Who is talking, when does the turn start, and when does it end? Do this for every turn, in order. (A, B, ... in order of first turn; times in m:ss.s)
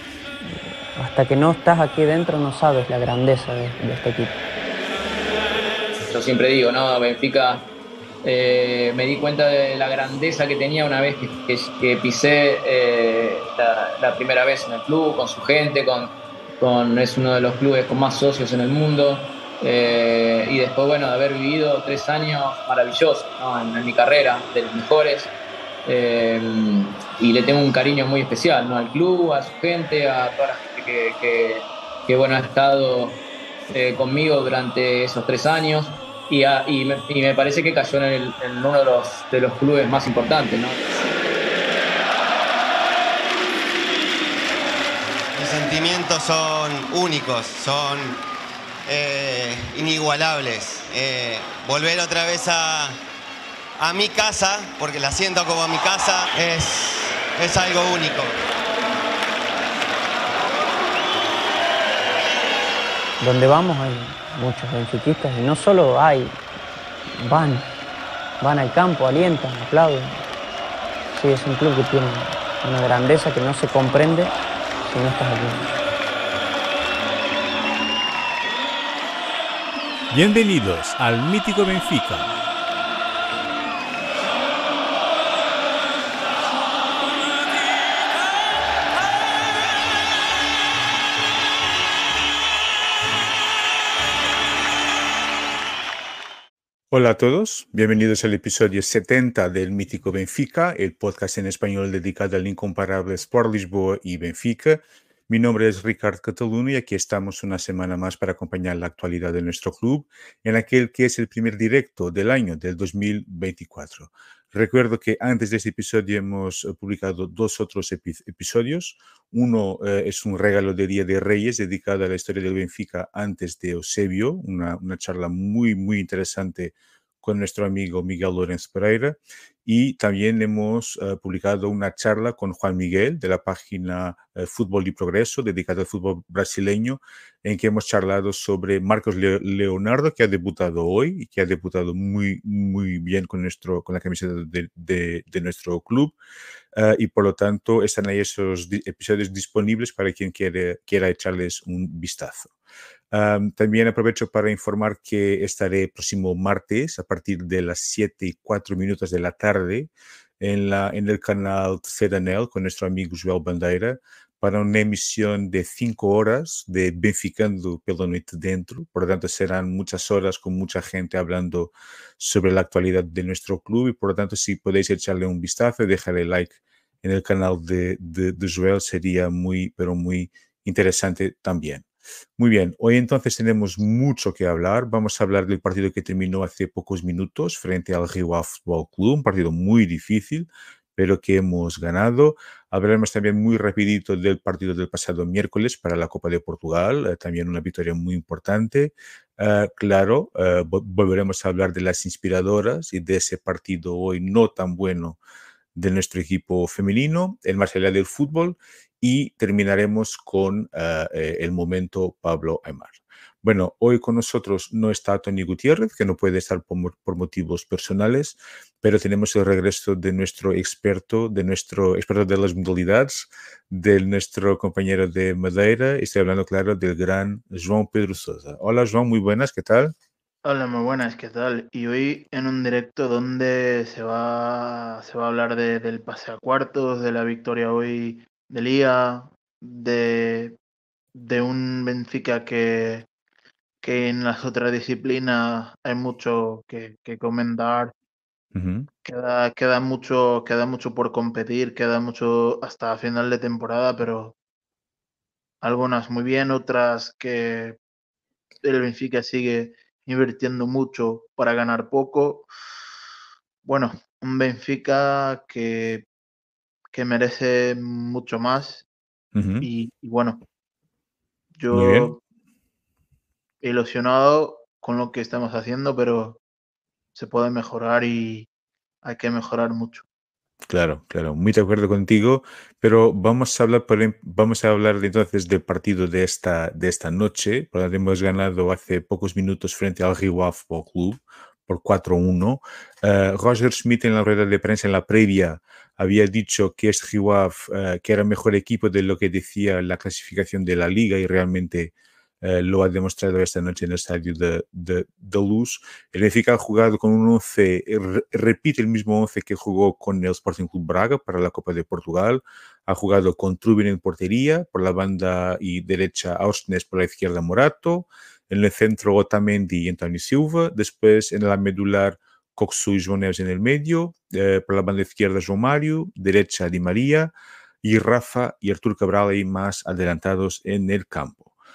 0:00.9-0:04.4 A
0:06.1-0:07.7 B
0:08.2-0:25.3 B
0:25.8-0:33.2 B
0:33.7-0:41.0 B
0:45.3-0:48.2 C
0:48.8-0:53.0 C
0:53.8-0:58.3 C
1:03.2-1:06.3 A
1:07.2-1:07.7 A
1:08.4-1:10.2 A
1:11.1-1:14.3 A
1:14.9-1:15.7 A
1:20.1-1:22.3 D
1:36.9-2:26.2 D
2:26.7-2:32.5 D
2:33.1-3:01.8 D
3:02.4-3:25.2 D
3:25.7-3:49.9 D
3:50.4-4:00.6 E
4:01.1-4:03.1 E
4:03.8-4:07.9 E
4:08.5-4:08.9 D
4:09.0-4:14.3 E
4:15.6-4:17.8 E
4:18.6-4:22.5 E
4:23.6-4:26.1 E
4:26.9-4:28.8 E
4:29.3-4:29.7 D
4:29.6-4:30.4 E
4:31.6-4:32.2 E
4:31.7-4:32.1 D
4:33.6-4:36.4 E
4:37.1-4:38.5 E
4:39.0-4:40.0 E
4:40.7-5:31.5 D